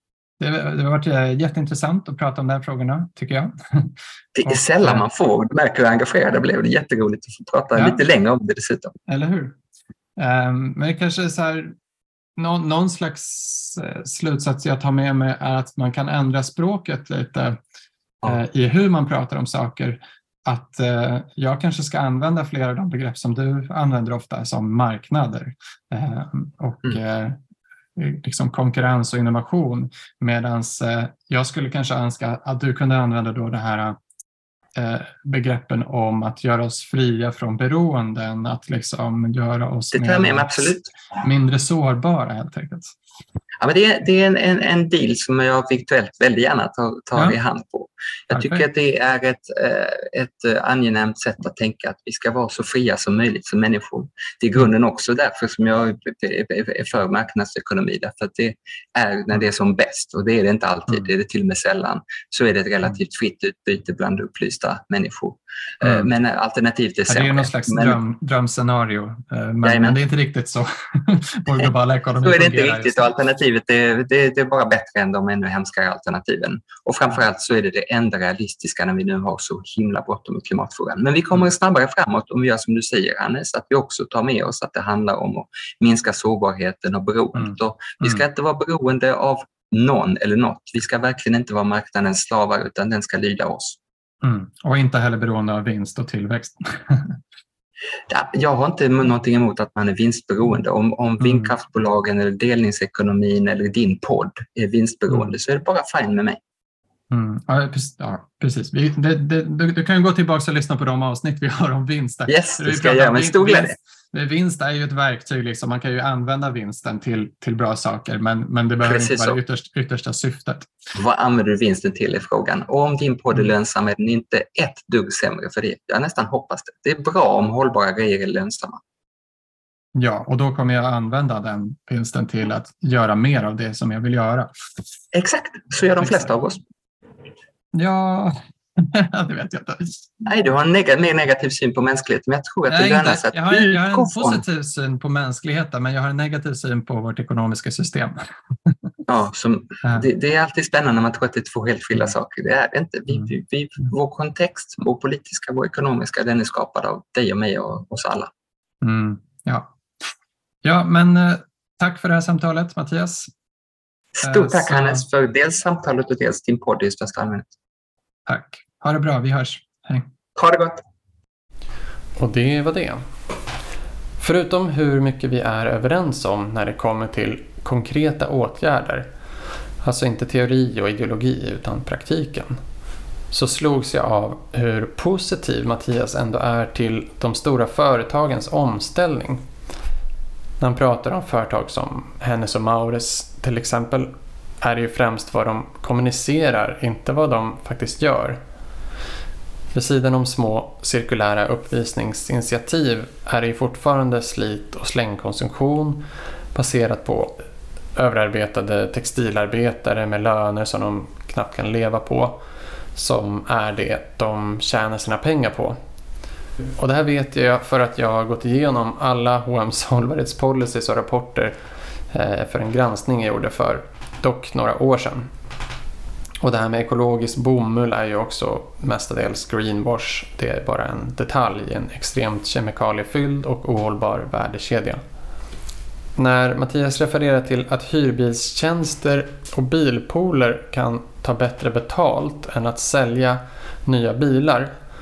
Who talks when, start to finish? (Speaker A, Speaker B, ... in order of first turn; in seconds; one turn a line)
Speaker A: 0.4-5.0
Speaker B: 4.4-8.9
Speaker A: 7.7-8.0
Speaker A: 9.1-9.6
Speaker A: 10.2-11.7
Speaker A: 12.4-17.6
Speaker A: 18.2-27.4
Speaker A: 27.9-34.0
Speaker A: 34.8-42.9
Speaker B: 39.9-40.9
Speaker B: 43.6-68.0
Speaker A: 48.3-48.6
Speaker A: 67.1-73.2
Speaker B: 69.6-70.0
Speaker B: 72.2-93.8
Speaker A: 87.4-88.2
Speaker A: 94.2-97.2
Speaker B: 98.1-106.4
Speaker A: 101.2-101.5
Speaker A: 107.1-120.7
Speaker B: 112.3-113.7
Speaker B: 118.8-119.4
Speaker B: 121.0-128.8
Speaker A: 129.9-134.5
Speaker B: 135.1-136.6
Speaker A: 136.0-136.3
Speaker A: 137.7-140.1
Speaker B: 140.2-144.4
Speaker A: 142.7-148.7
Speaker B: 149.1-158.3
Speaker A: 149.8-150.1
Speaker A: 158.8-159.7
Speaker A: 160.6-163.3
Speaker B: 164.2-167.5
Speaker A: 164.2-165.1
Speaker A: 168.3-170.1
Speaker B: 170.4-170.8
Speaker C: 172.2-173.0
Speaker C: 174.2-179.1
Speaker C: 179.8-182.6
Speaker C: 183.3-189.4
Speaker C: 190.6-198.4
Speaker C: 199.7-206.0
Speaker C: 206.6-207.4
Speaker C: 207.9-212.4
Speaker C: 212.9-215.8
Speaker C: 216.8-221.6
Speaker C: 222.1-225.3
Speaker C: 226.4-235.0
Speaker C: 236.2-244.7